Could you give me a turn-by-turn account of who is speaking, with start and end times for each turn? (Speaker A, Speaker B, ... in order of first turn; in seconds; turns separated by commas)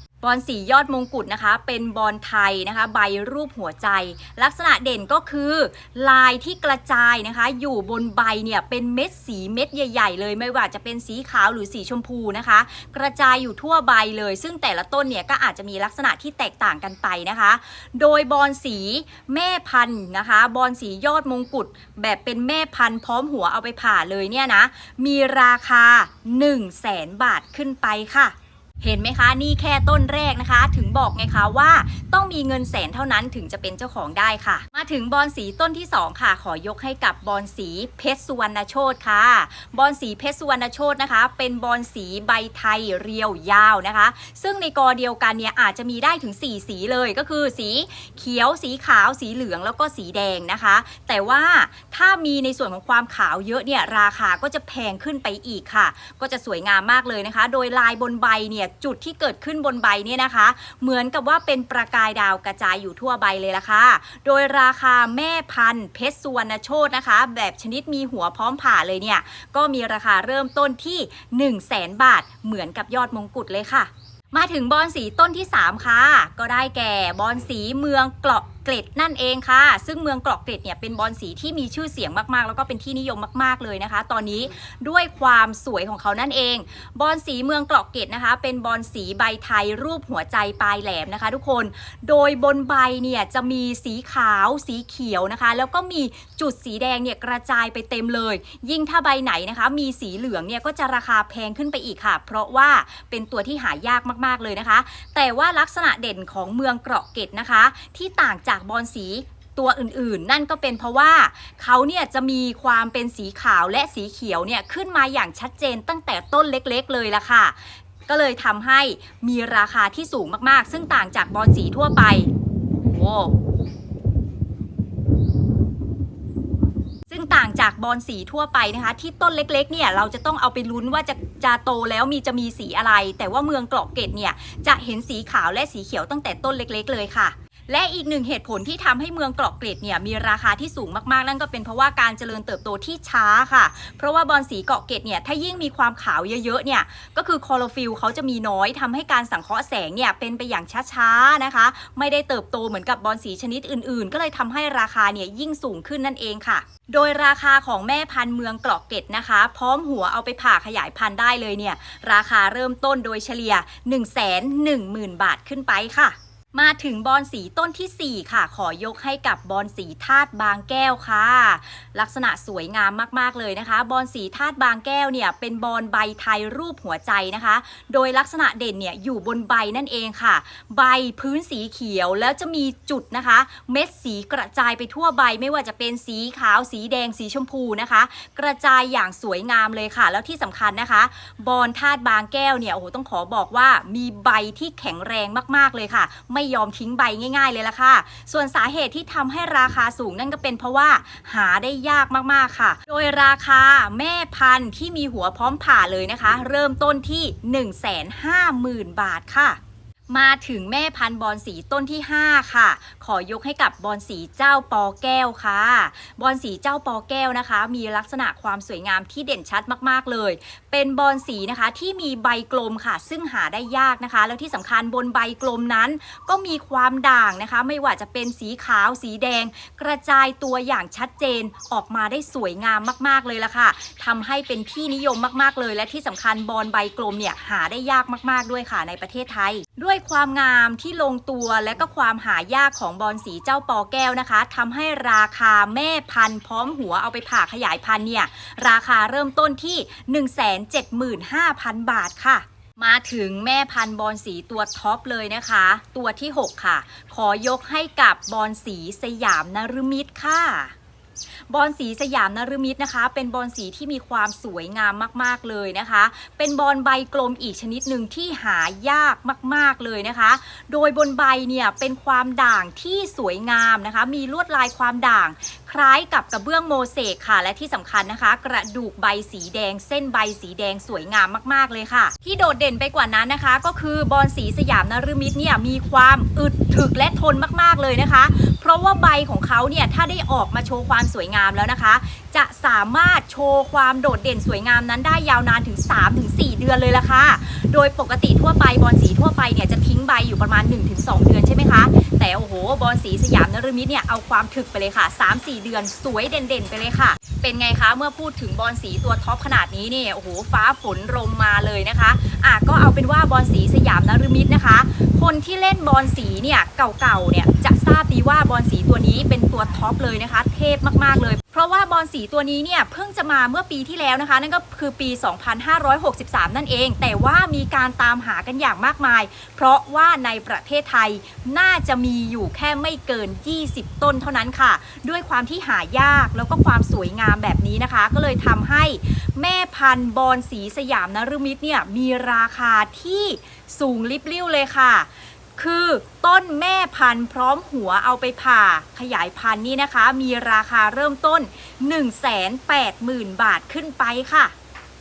Speaker A: 0.2-122.3, Speaker A: 122.8-123.3, Speaker A: 127.1-209.6, Speaker A: 210.1-260.7, Speaker A: 261.5-354.5